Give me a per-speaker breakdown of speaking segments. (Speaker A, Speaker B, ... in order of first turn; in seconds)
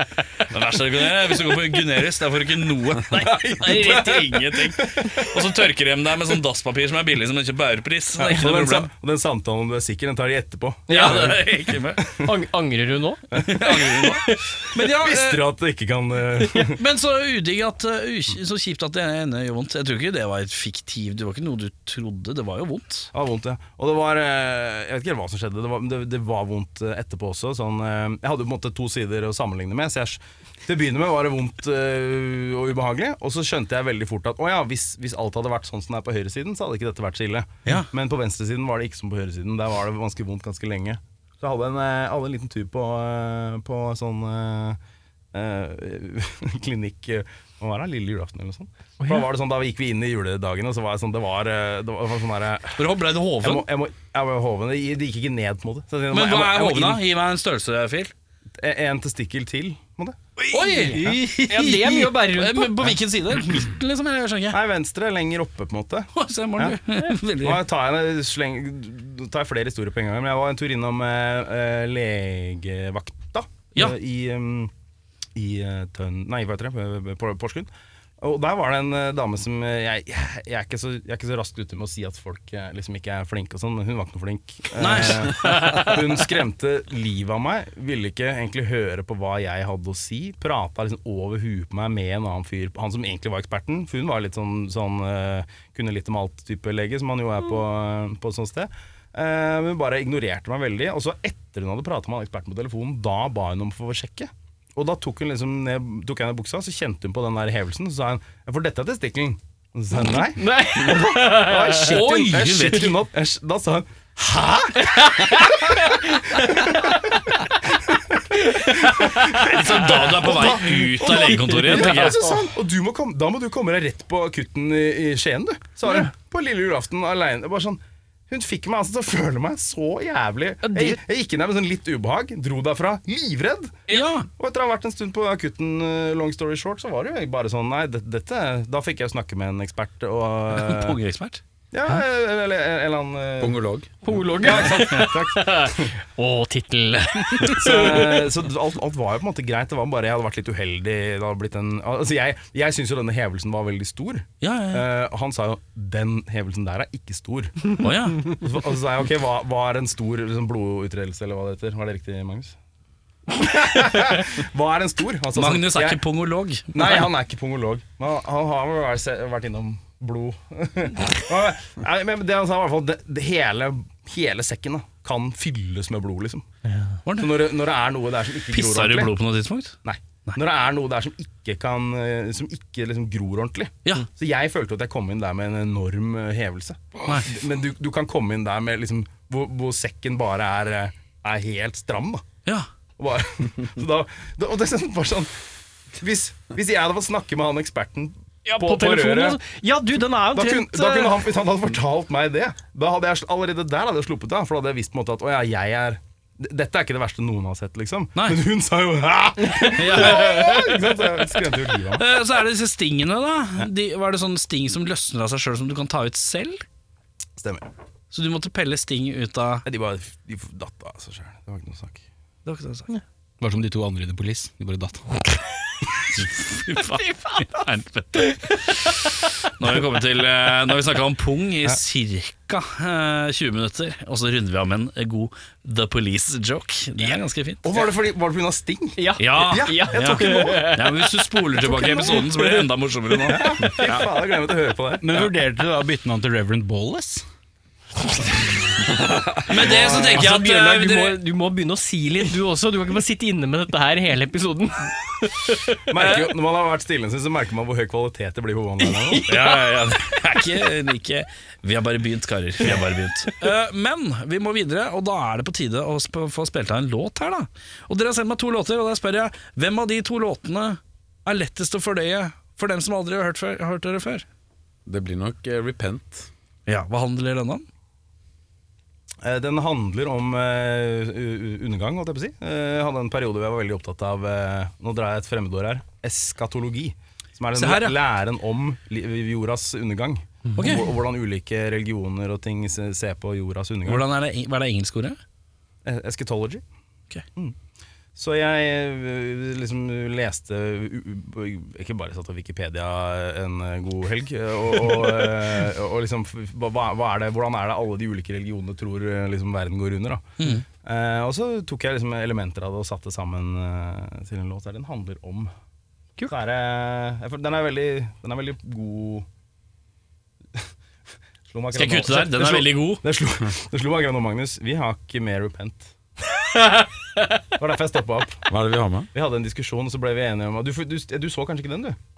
Speaker A: 0.4-8.9, 10.9-12.1, 13.3-15.5, 16.6-23.1, 52.8-53.7, 56.1-58.1, 60.4-64.6, 66.1-67.7, 84.8-85.9, 111.7-113.1, 119.2-122.2, 133.9-134.3, 140.5-141.4, 154.4-154.9, 157.8-158.4, 165.3-167.1, 177.1-177.4, 178.5-180.4, 187.1-187.3, 208.2-208.4, 209.6-216.6, 218.1-219.7, 222.4-222.9, 226.1-237.9, 239.2-244.1, 249.5-251.2, 259.2-274.3, 276.7-277.7, 287.6-288.0, 290.6-290.9, 293.9-295.2, 310.4-310.7, 321.7-323.0
Speaker B: 3.1-5.5, 8.2-12.3, 13.3-14.1, 14.8-16.8, 23.1-44.8, 45.3-52.9, 53.4-57.0, 58.6-60.2, 64.5-66.8, 67.3-74.7, 75.3-141.0, 141.7-143.7, 144.3-145.9, 147.5-162.6, 163.3-166.0, 166.7-176.5, 177.2-179.1, 179.8-192.2, 193.0-195.3, 195.9-199.4, 200.3-212.1, 217.4-217.7, 219.7-222.0, 237.6-240.7, 241.7-245.3, 249.6-250.2, 255.9-259.3, 279.2-294.1, 295.9-296.6, 298.1-310.3, 310.8-315.5, 316.3-319.3, 321.5-325.9, 327.6-328.5, 329.1-332.0
Speaker C: 10.9-11.3, 12.2-14.6, 49.0-49.3, 60.5-62.9, 110.1-112.0, 114.8-116.8, 118.5-119.4, 121.3-122.5, 130.6-131.0, 144.0-148.2, 198.4-201.3, 227.0-227.7, 239.0-242.2, 249.8-256.2, 258.9-259.6
Speaker D: 143.4-143.9, 274.9-276.3, 328.5-329.1
Speaker E: 223.4-225.0, 245.0-247.2